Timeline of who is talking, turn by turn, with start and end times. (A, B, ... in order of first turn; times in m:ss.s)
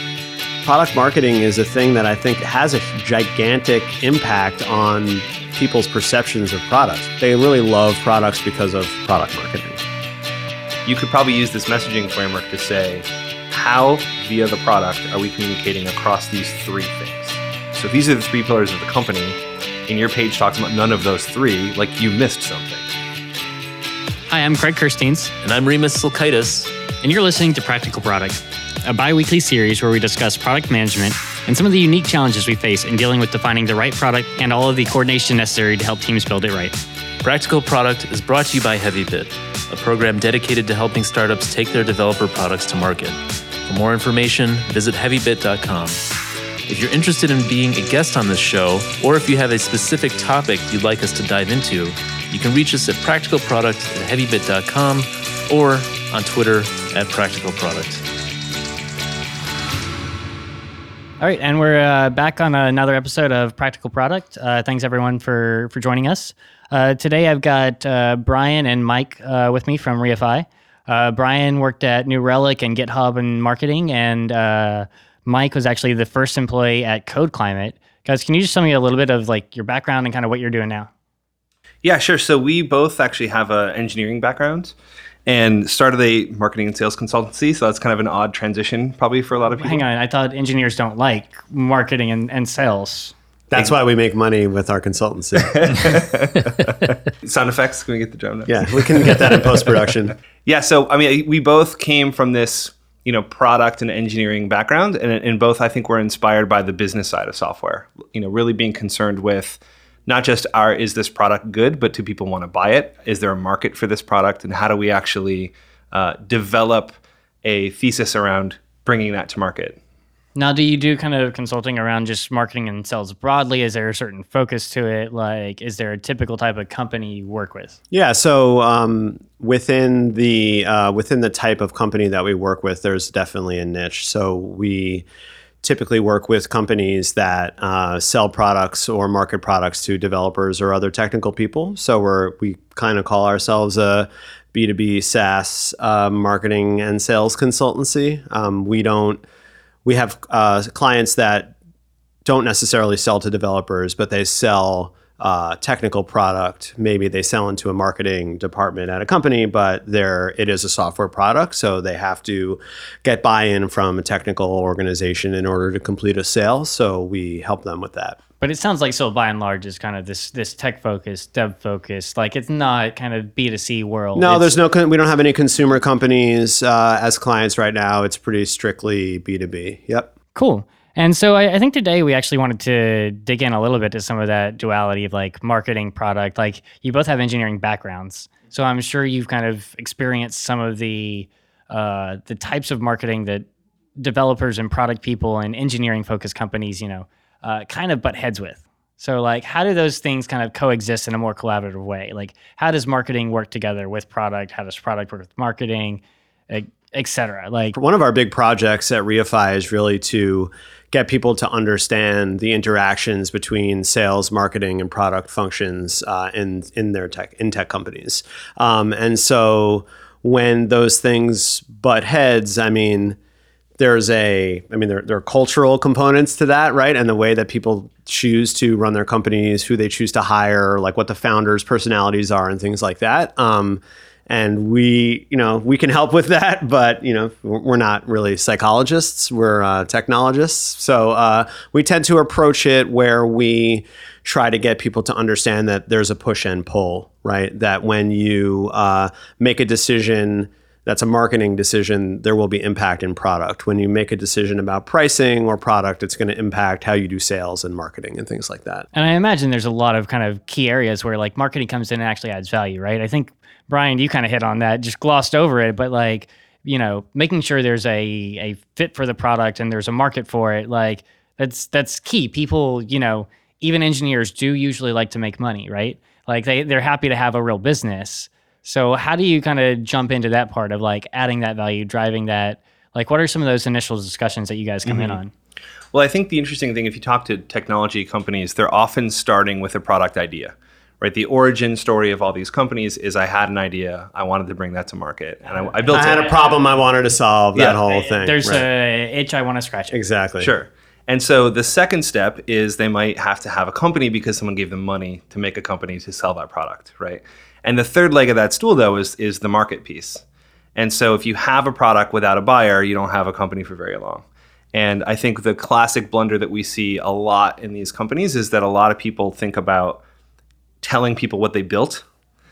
0:00.6-0:09.8 A
0:10.9-0:22.9 B
0:24.3-0:25.3 C
0:25.4-0:26.7 D
0:27.0-0:36.8 C
0:37.2-0:46.0 D
0:46.7-0:58.0 D
1:01.2-1:20.9 C
1:21.8-1:24.7 B
1:25.3-1:29.8 B
1:29.6-1:33.1 C
1:33.5-1:35.9 A
1:35.4-1:39.9 B
1:38.5-1:40.2 A
1:40.4-1:59.8 B
2:00.4-2:07.8 C
2:07.9-2:15.0 A
2:15.6-2:29.2 A
2:29.8-2:31.5 A
2:32.2-2:48.2 A
2:48.4-2:54.6 C
2:54.2-3:00.1 A
3:00.4-3:13.5 C
3:14.0-3:27.8 C
3:27.8-3:43.2 A
3:43.8-4:18.9 A
4:18.9-4:45.3 C
4:44.8-4:45.2 B
4:45.9-4:56.4 B
4:55.6-4:56.6 C
4:55.9-4:58.7 A
4:57.6-4:57.8 B
4:57.9-5:00.0 C
4:59.9-5:00.5 A
5:00.4-5:10.2 B
5:10.8-5:20.0 B
5:20.8-5:22.0 B